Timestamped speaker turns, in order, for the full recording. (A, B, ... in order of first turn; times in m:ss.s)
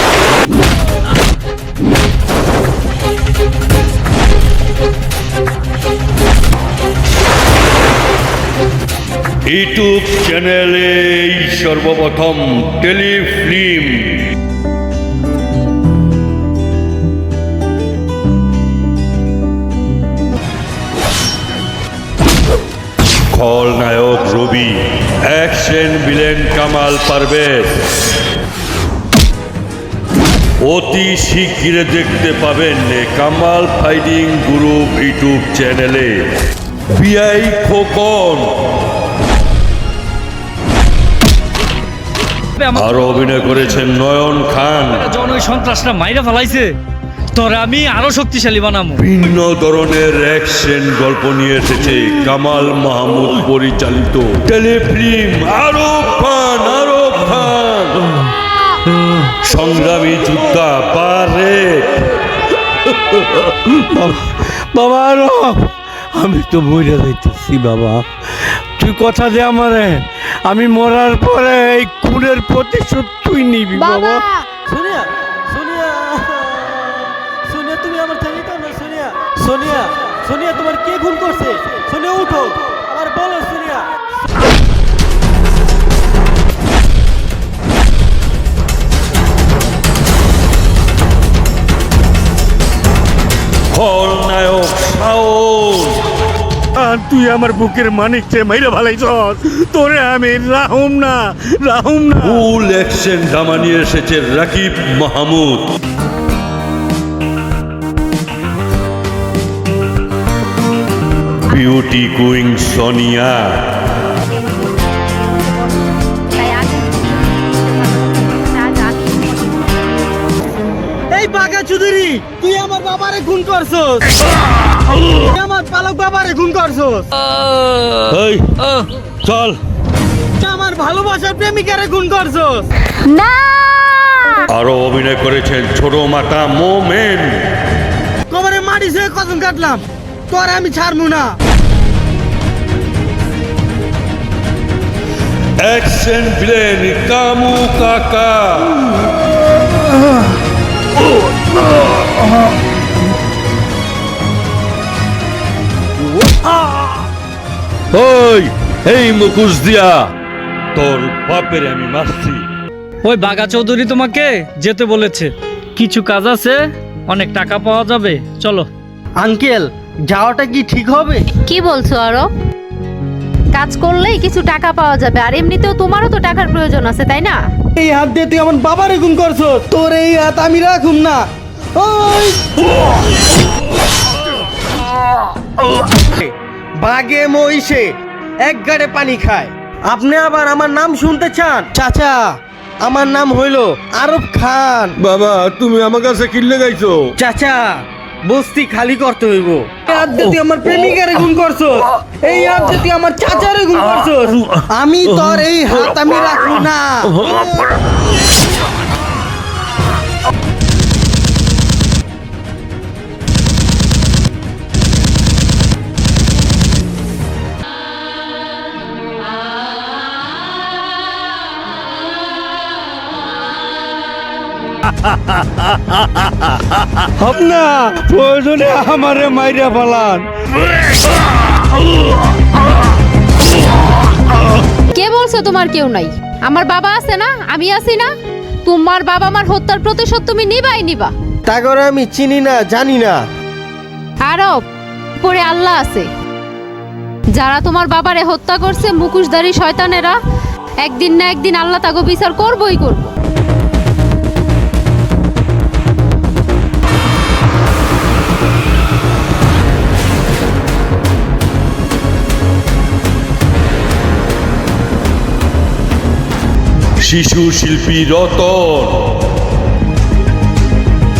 0:09.4-0:14.3 A
0:23.3-0:27.8 A
0:30.6-0:36.3 A
0:36.9-0:38.5 A
0:42.6-0:42.8 B
0:42.7-0:45.2 A
0:45.1-0:46.8 B
0:47.3-0:49.0 B
0:49.0-0:58.1 A
0:59.4-1:02.2 A
1:03.1-1:03.4 A
1:03.9-1:08.1 C
1:08.8-1:14.2 C
1:13.7-1:14.4 D
1:14.7-1:23.8 E
1:19.6-1:20.1 C
1:22.2-1:23.3 C
1:33.7-1:36.0 A
1:36.8-1:42.4 C
1:37.1-1:42.0 B
1:42.2-1:45.6 A
1:51.5-1:53.7 A
1:55.2-1:55.7 D
1:56.3-1:59.9 D
2:01.1-2:04.1 E
2:05.2-2:07.1 E
2:08.0-2:09.6 A
2:10.4-2:12.6 E
2:13.0-2:14.4 D
2:14.5-2:17.4 A
2:18.3-2:21.4 E
2:25.6-2:29.0 A
2:36.2-2:36.9 A
2:37.9-2:40.1 A
2:40.7-2:42.4 A
2:43.0-2:48.7 B
2:49.2-2:51.3 E
2:51.4-2:52.3 D
2:53.5-2:57.4 D
2:57.8-3:02.4 E
3:06.1-3:15.0 E
3:15.0-3:17.1 A
3:17.2-3:27.6 E
3:47.2-3:50.2 C
3:54.9-3:58.1 D
3:58.6-4:01.1 D
4:01.5-4:03.3 E
4:04.2-4:04.6 D
4:05.2-4:06.1 D
4:07.3-4:10.2 D
4:10.8-4:13.1 D
4:27.0-4:29.1 A